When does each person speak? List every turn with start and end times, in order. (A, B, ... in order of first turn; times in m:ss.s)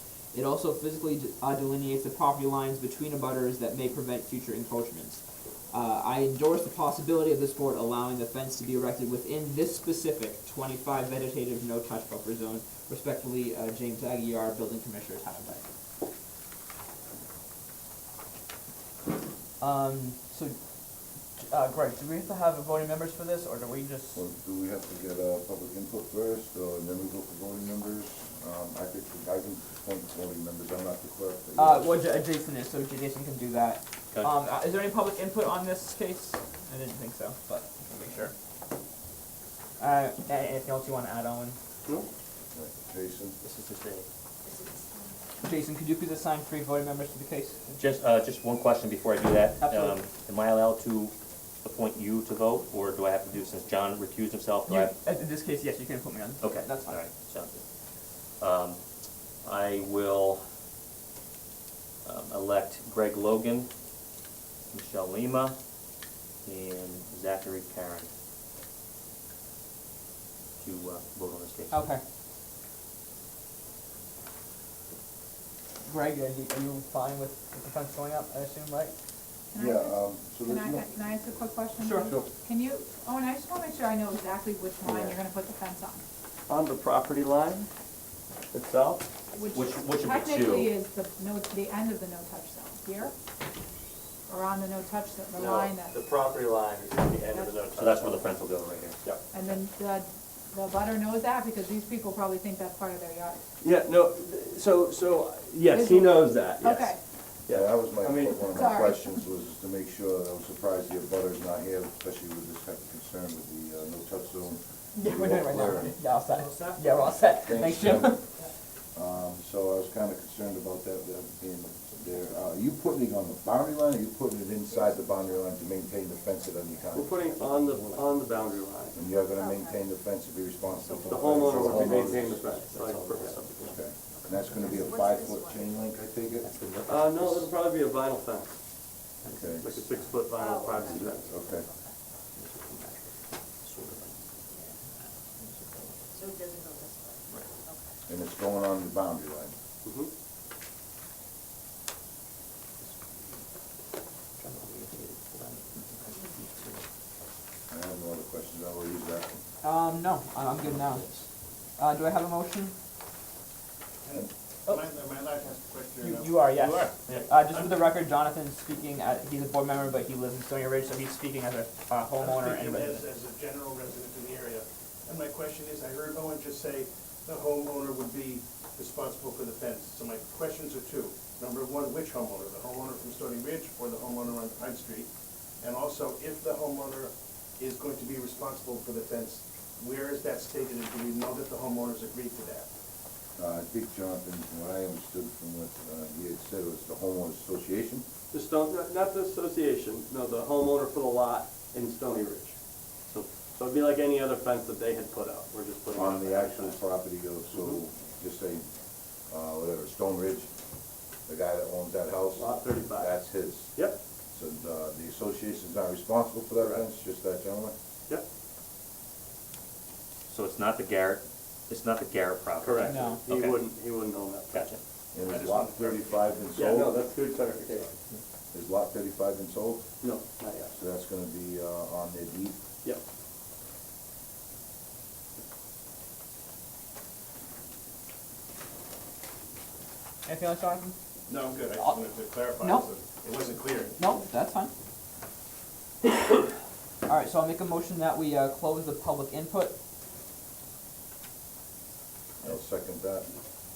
0:00.3-0:15.6 A
0:19.6-0:20.6 A
0:21.4-0:24.2 A
0:24.1-0:32.0 B
0:31.6-0:38.3 A
0:39.8-0:41.6 A
0:42.5-0:43.4 B
0:43.4-0:44.0 C
0:44.4-0:45.2 D
0:45.4-0:47.8 A
0:47.8-0:54.9 C
0:49.6-0:49.9 A
0:54.7-0:57.0 A
0:56.4-0:57.6 C
0:58.4-0:58.8 C
0:59.4-1:00.4 C
1:02.0-1:03.7 C
1:04.7-1:05.6 C
1:06.4-1:08.1 C
1:10.6-1:11.8 C
1:11.7-1:12.0 A
1:15.8-1:18.9 A
1:19.5-1:26.0 E
1:19.6-1:20.8 B
1:21.8-1:22.1 A
1:24.8-1:25.2 F
1:26.5-1:27.7 F
1:28.5-1:29.1 F
1:29.3-1:33.1 E
1:29.5-1:30.7 C
1:34.3-1:35.9 E
1:35.3-1:38.3 F
1:37.3-1:37.5 E
1:37.7-1:39.0 C
1:39.3-1:43.4 E
1:43.6-1:48.5 F
1:45.7-1:47.0 E
1:47.5-1:56.1 B
1:48.4-1:49.2 E
1:55.0-1:58.2 A
1:57.4-1:58.2 B
1:58.9-2:08.3 B
2:04.6-2:07.8 D
2:06.9-2:09.0 F
2:08.8-2:12.4 B
2:09.0-2:09.9 D
2:10.7-2:12.9 D
2:11.0-2:13.6 F
2:12.7-2:13.8 C
2:13.6-2:16.0 D
2:13.6-2:16.5 B
2:16.4-2:17.5 C
2:16.8-2:18.6 F
2:19.2-2:20.2 C
2:19.2-2:19.7 B
2:19.6-2:21.3 F
2:20.3-2:22.0 D
2:20.8-2:21.7 B
2:22.4-2:24.2 C
2:25.4-2:25.9 C
2:26.1-2:27.9 D
2:28.1-2:29.5 B
2:29.8-2:30.1 F
2:34.4-2:36.8 C
2:37.7-2:39.4 B
2:39.6-2:41.2 A
2:40.8-2:41.2 C
2:41.8-2:42.7 A
2:44.0-2:47.8 G
2:46.0-2:53.0 A
2:52.2-3:05.1 G
3:05.6-3:12.7 G
3:13.4-3:18.0 B
3:18.3-3:22.6 F
3:23.1-3:26.8 F
3:25.9-3:28.7 B
3:27.5-3:27.8 F
3:29.3-3:30.5 B
3:31.3-3:33.8 B
3:32.3-3:33.2 F
3:34.3-3:37.7 B
3:36.6-3:36.8 F
3:40.3-3:43.7 C
3:42.6-3:44.7 F
3:42.8-3:43.2 A
3:44.5-3:44.8 C
3:45.1-3:47.0 B
3:45.2-3:46.2 G
3:46.5-3:47.9 F
3:48.5-3:49.9 B
3:50.0-3:50.8 F
3:50.8-3:52.6 B
4:00.2-4:00.9 A
4:01.3-4:04.0 G
4:02.6-4:02.9 A
4:04.0-4:04.7 A
4:07.0-4:09.8 A
4:12.4-4:13.3 B